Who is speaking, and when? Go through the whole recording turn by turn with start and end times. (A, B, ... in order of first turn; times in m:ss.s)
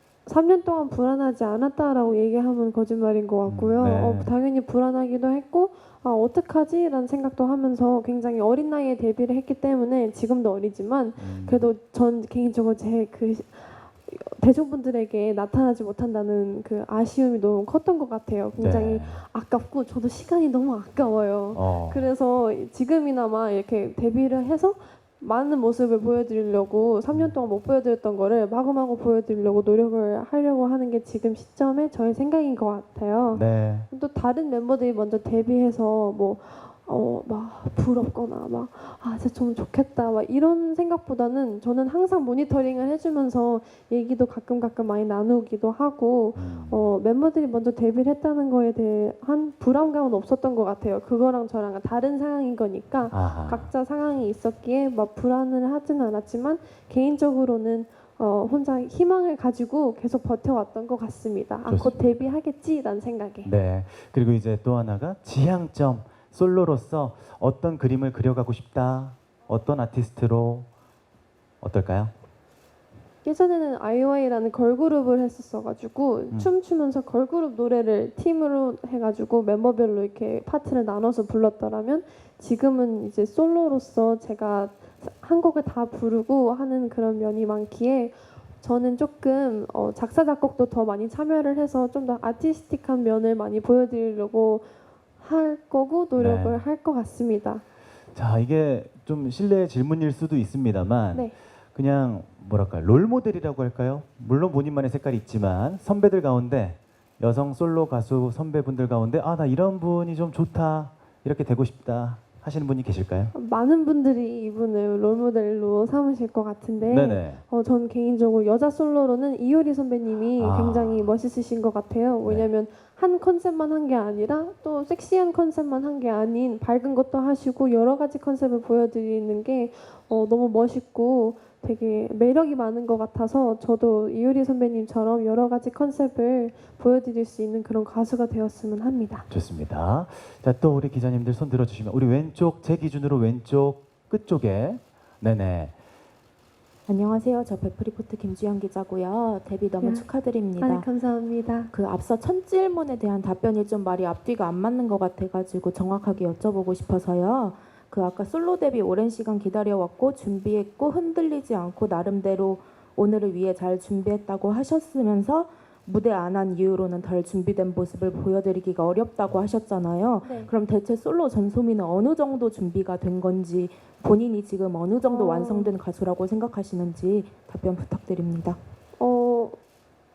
0:00.3-1:03.5 A
0:03.4-0:04.3 B
0:11.2-0:11.6 B
0:18.6-0:19.2 B
0:21.5-0:22.1 B
0:33.3-0:33.9 B
0:46.4-0:46.9 B
0:53.1-0:53.7 B
1:01.7-1:02.4 B
1:03.4-1:10.7 B
1:11.6-1:12.1 B
1:13.2-1:37.6 A
1:36.2-1:36.6 B
1:38.2-1:53.3 B
1:53.3-2:19.3 A
1:56.8-1:57.4 B
2:00.4-2:01.1 B
2:19.3-2:25.7 B
2:26.9-2:30.9 C
2:29.8-2:31.7 A
2:31.7-2:58.6 C
2:50.2-2:50.5 A
2:55.1-2:55.7 A
2:59.0-2:59.6 A